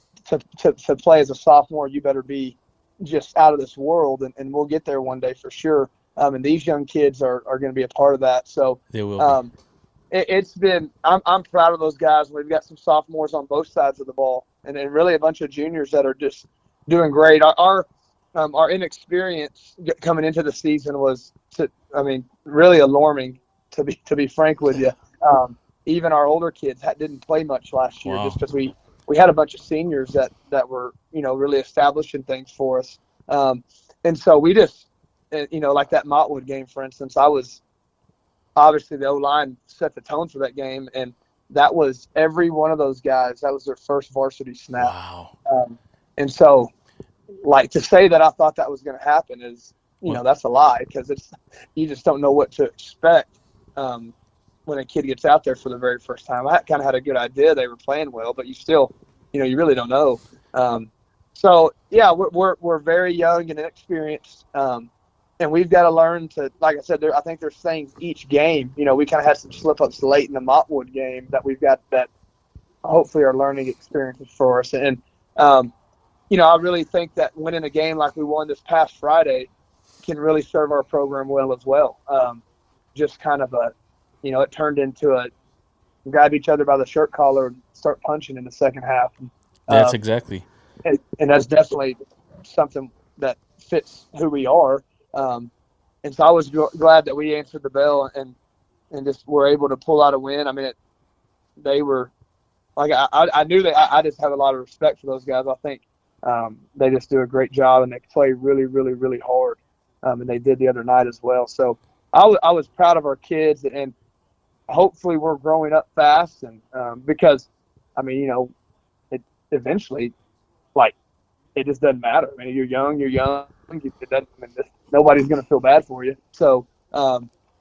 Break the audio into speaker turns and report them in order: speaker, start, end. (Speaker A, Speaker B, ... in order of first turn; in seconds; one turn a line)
Speaker A: 0.3-9.5
Speaker B: 8.9-9.4
Speaker A: 10.1-37.6
Speaker B: 28.0-28.4
Speaker A: 38.6-44.9
Speaker B: 44.8-45.3
Speaker A: 45.5-46.7
Speaker A: 47.4-54.1
Speaker A: 54.6-72.1
Speaker A: 72.8-75.7
Speaker A: 76.3-79.5
Speaker A: 80.0-82.4
Speaker A: 83.0-85.3
Speaker A: 86.0-90.0
Speaker B: 89.7-90.4
Speaker A: 90.8-95.5
Speaker A: 96.0-98.3
Speaker A: 98.9-100.8
Speaker A: 101.6-102.1
Speaker A: 102.8-113.9
Speaker A: 114.7-118.5
Speaker A: 119.1-120.1
Speaker A: 121.6-127.3